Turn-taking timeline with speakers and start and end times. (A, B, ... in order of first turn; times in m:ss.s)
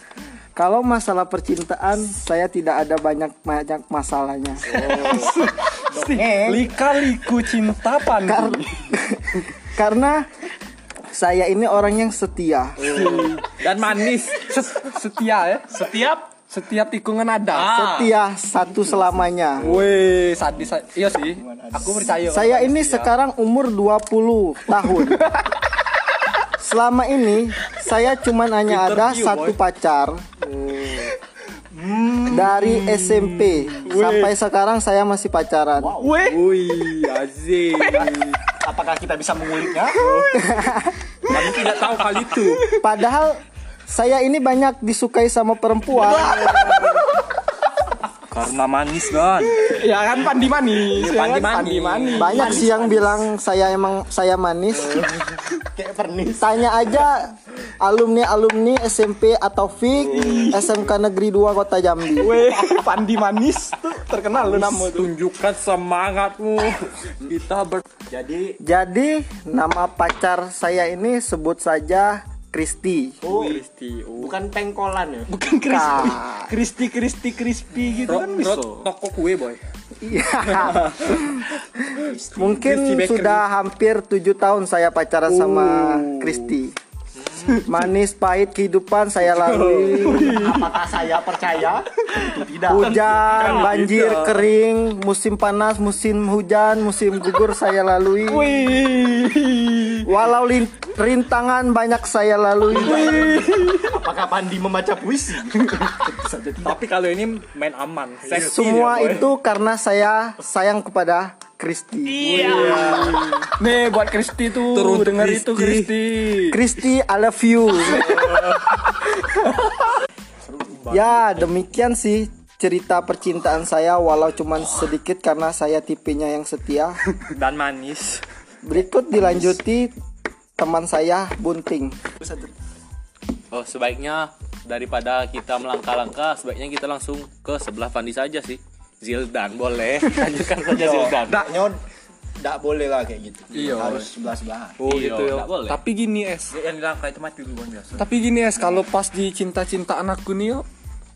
0:00.5-0:04.7 A
0:04.7-0:05.3 B
0:04.7-0:08.9 C
0:05.9-0:06.7 D
0:08.1-0:10.3 A
0:11.1-0:12.9 A
0:12.8-0:13.6 C
0:12.8-0:14.6 B
0:14.4-0:15.7 C
0:15.7-0:16.3 E
0:16.5-0:17.7 C
0:17.5-0:18.1 E
0:17.6-0:19.7 A
0:18.7-0:19.9 D
0:19.6-0:23.1 C
0:20.4-0:22.3 D
0:22.2-0:25.3 A
0:24.8-0:25.6 C
0:26.6-0:30.2 A
0:28.6-0:29.6 B
0:31.7-0:32.6 D
0:32.3-0:36.0 A
0:32.5-0:34.1 C
0:33.8-0:34.2 B
0:35.8-0:36.2 D
0:36.0-0:36.8 C
0:36.2-0:38.4 B
0:38.5-0:40.0 D
0:39.9-0:40.3 B
0:40.3-0:41.0 A
0:41.3-0:42.6 B
0:42.8-0:46.6 A
0:46.0-0:47.1 C
0:46.2-0:46.9 D
0:48.3-0:49.7 B
0:49.5-0:52.6 C
0:50.8-0:52.7 B
0:52.2-0:55.1 A
0:52.2-0:53.3 D
0:55.6-0:56.8 D
0:56.4-1:02.4 A
1:00.1-1:00.5 C
1:00.1-1:00.5 B
1:02.2-1:05.1 C
1:04.4-1:07.8 B
1:08.1-1:08.6 D
1:08.6-1:13.2 A
1:13.2-1:13.6 D
1:13.2-1:14.4 B
1:14.2-1:15.3 D
1:15.3-1:18.7 C
1:15.7-1:16.5 A
1:17.8-1:18.6 D
1:18.0-1:19.6 B
1:20.0-1:21.5 A
1:21.9-1:22.6 D
1:22.3-1:26.7 A
1:22.6-1:23.3 B
1:22.7-1:23.2 C
1:25.3-1:26.4 C
1:27.2-1:27.6 B
1:27.6-1:30.3 A
1:29.4-1:30.6 B
1:29.7-1:30.7 C
1:30.1-1:33.1 D
1:32.6-1:38.6 A
1:32.9-1:34.3 B
1:33.3-1:34.3 C
1:38.3-1:40.1 C
1:40.0-1:43.2 A
1:42.7-1:43.9 C
1:42.8-1:46.8 D
1:42.9-1:43.4 B
1:45.7-1:45.9 C
1:46.6-1:49.3 B
1:48.3-1:52.7 A
1:52.1-1:53.1 E
1:52.2-1:53.3 D
1:52.2-1:56.6 C
1:52.4-1:53.0 B
1:54.6-1:55.9 B
1:56.5-1:58.6 A
1:57.9-1:59.0 C
2:00.5-2:01.2 D
2:00.7-2:01.4 B
2:00.9-2:07.0 A
2:07.3-2:08.2 B
2:08.6-2:09.9 A
2:10.6-2:12.0 A
2:12.2-2:12.5 D
2:13.5-2:21.5 E
2:20.7-2:21.8 D
2:22.4-2:24.8 D
2:23.5-2:24.1 C
2:24.8-2:25.4 B
2:24.8-2:25.8 E
2:24.9-2:26.5 C
2:26.5-2:28.1 B
2:28.0-2:30.6 C